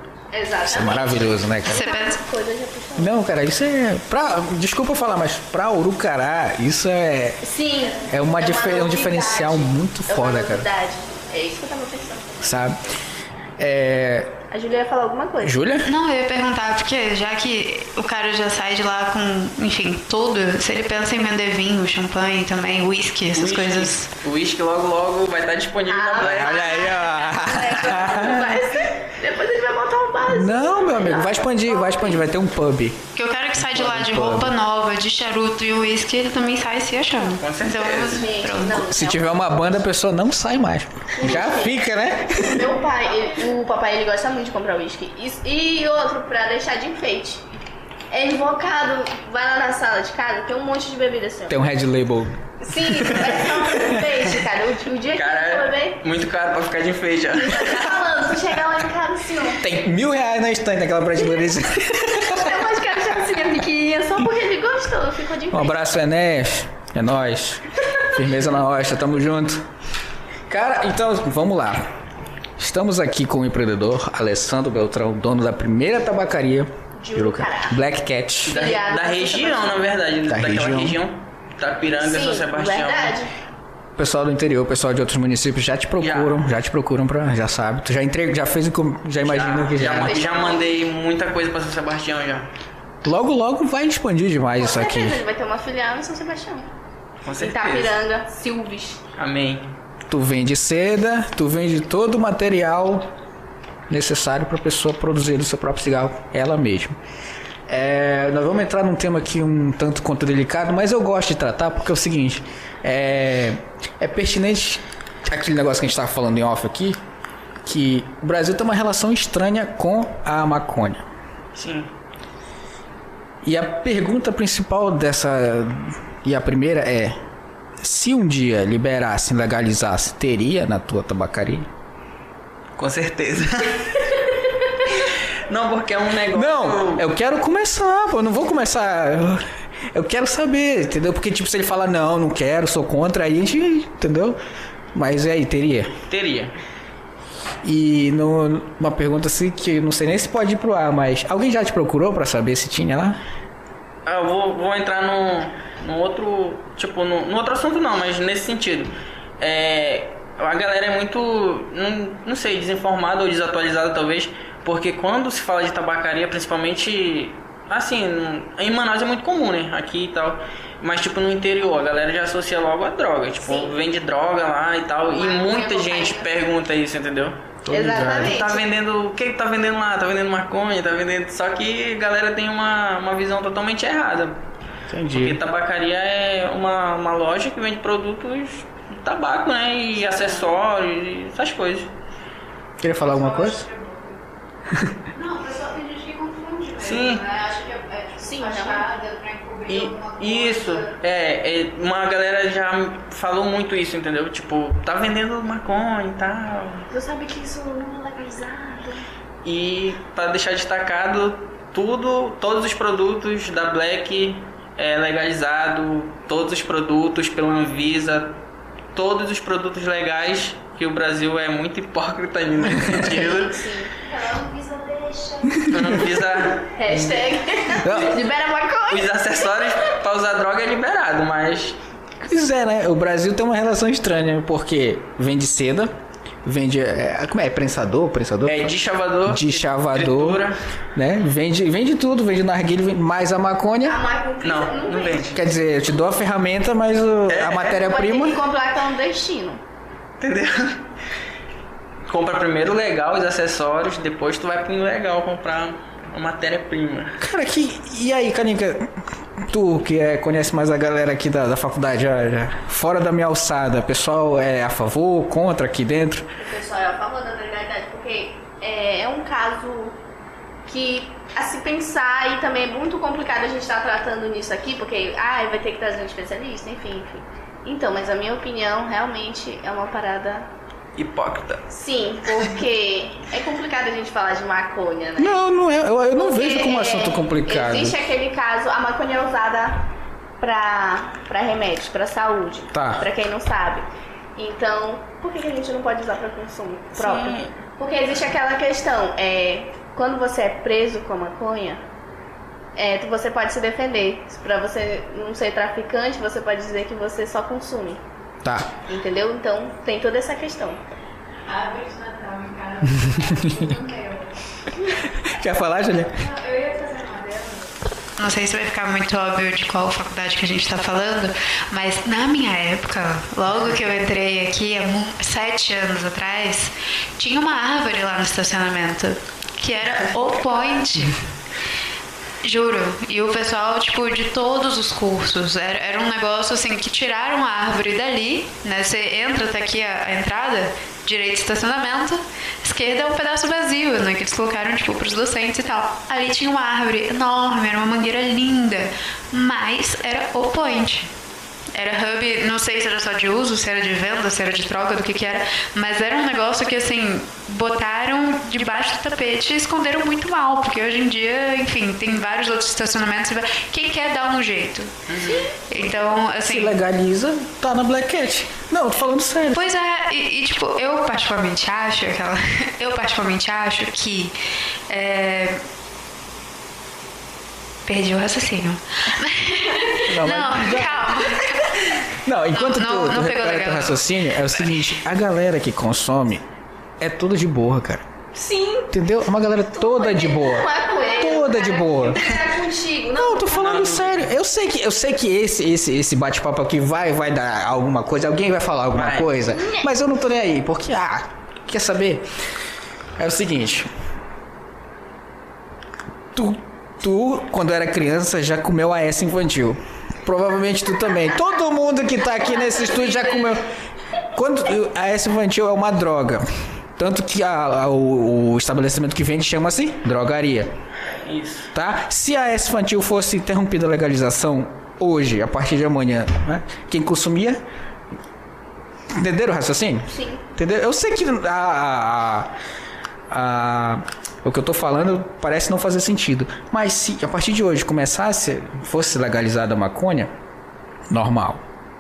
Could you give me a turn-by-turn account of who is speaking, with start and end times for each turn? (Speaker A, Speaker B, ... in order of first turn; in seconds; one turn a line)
Speaker A: 0.3-3.2
Speaker B: 0.6-1.9
Speaker C: 1.7-2.2
Speaker B: 3.0-7.4
Speaker A: 7.4-12.6
Speaker B: 8.1-10.7
Speaker B: 12.4-12.8
Speaker B: 13.6-14.4
Speaker A: 14.5-15.6
Speaker B: 15.4-15.9
Speaker C: 15.8-24.1
Speaker D: 23.3-26.6
Speaker A: 25.9-32.2
Speaker B: 26.2-28.6
Speaker B: 30.3-33.1
Speaker C: 33.1-38.9
Speaker B: 33.6-34.5
Speaker D: 37.4-38.3
Speaker A: 38.0-39.3
Speaker B: 38.8-42.7
Speaker A: 41.1-47.4
Speaker A: 48.1-51.6
Speaker B: 51.5-54.0
Speaker A: 52.6-56.0
Speaker D: 55.1-58.0
Speaker A: 57.3-59.7
Speaker B: 59.6-62.7
Speaker A: 62.1-65.8
Speaker B: 65.5-69.6
Speaker B: 70.5-71.9
Speaker B: 72.6-78.6
Speaker A: 77.0-77.8
Speaker D: 78.5-83.2
Speaker A: 78.5-79.8
Speaker B: 80.3-81.0
Speaker A: 82.0-83.3
Speaker B: 84.0-90.2
Speaker D: 86.0-86.4
Speaker D: 89.2-92.5
Speaker A: 90.0-90.7
Speaker B: 93.0-95.2
Speaker A: 94.5-96.7
Speaker D: 97.2-98.0
Speaker A: 97.4-99.0
Speaker D: 99.2-99.7
Speaker B: 100.1-103.1
Speaker B: 103.9-107.0
Speaker B: 107.7-117.0
Speaker B: 117.6-121.0
Speaker D: 121.5-121.9
Speaker B: 123.4-127.2
Speaker B: 127.8-131.7
Speaker D: 132.8-137.1
Speaker B: 136.3-144.4
Speaker B: 144.9-145.9
Speaker D: 146.1-146.6
Speaker B: 147.6-153.2
Speaker D: 154.1-177.4
Speaker A: 173.4-173.8
Speaker A: 175.2-176.3
Speaker B: 177.7-178.4
Speaker A: 177.7-178.6
Speaker D: 178.2-184.4
Speaker B: 184.9-185.4
Speaker D: 185.1-191.9
Speaker A: 190.0-190.5
Speaker B: 192.8-193.7
Speaker E: 193.0-194.2
Speaker B: 194.7-195.0
Speaker E: 195.1-201.0
Speaker D: 196.8-197.2
Speaker A: 198.2-198.9
Speaker D: 199.7-206.9
Speaker A: 206.9-209.0
Speaker D: 209.4-218.4
Speaker D: 218.9-223.6
Speaker B: 222.7-223.1
Speaker A: 223.0-223.9
Speaker E: 224.0-226.1
Speaker D: 225.7-226.7
Speaker A: 226.6-229.7
Speaker B: 227.8-228.2
Speaker D: 228.9-231.8
Speaker B: 232.2-238.7
Speaker D: 238.4-240.6
Speaker B: 239.3-244.0
Speaker A: 243.8-245.4
Speaker D: 244.4-245.4
Speaker B: 245.3-248.4
Speaker D: 247.3-247.7
Speaker A: 247.6-249.6
Speaker D: 250.2-250.8
Speaker D: 252.1-257.2
Speaker B: 257.2-266.3
Speaker A: 266.4-270.0
Speaker A: 270.7-280.5
Speaker D: 281.0-281.6
Speaker A: 281.7-285.4
Speaker B: 285.2-288.0
Speaker A: 286.1-293.9
Speaker B: 292.7-293.1
Speaker A: 294.4-301.8
Speaker D: 297.0-297.5
Speaker A: 302.8-308.0
Speaker B: 308.4-308.7
Speaker A: 308.9-310.8
Speaker E: 311.5-314.3
Speaker B: 315.2-316.2
Speaker E: 316.1-317.7
Speaker C: 318.2-331.2
Speaker C: 332.4-351.1
Speaker C: 351.7-364.9
Speaker D: 365.1-365.5
Speaker A: 365.2-365.5
Speaker C: 365.7-366.8
Speaker B: 366.4-369.7
Speaker C: 369.5-374.3
Speaker C: 374.9-375.6
Speaker C: 377.9-384.6
Speaker B: 380.0-381.2
Speaker B: 382.1-386.4
Speaker B: 387.0-388.0
Speaker A: 388.3-388.9
Speaker B: 388.9-392.4
Speaker A: 389.6-393.6
Speaker B: 393.1-402.3
Speaker D: 393.5-394.3
Speaker D: 398.9-399.3
Speaker A: 399.5-399.9
Speaker B: 403.2-403.9
Speaker B: 406.3-413.6
Speaker A: 412.4-413.6
Speaker B: 414.3-416.4
Speaker B: 417.0-420.7
Speaker D: 421.1-421.7
Speaker B: 421.7-427.6
Speaker B: 429.1-432.5
Speaker A: 430.1-430.4
Speaker B: 433.3-440.3
Speaker B: 441.1-441.6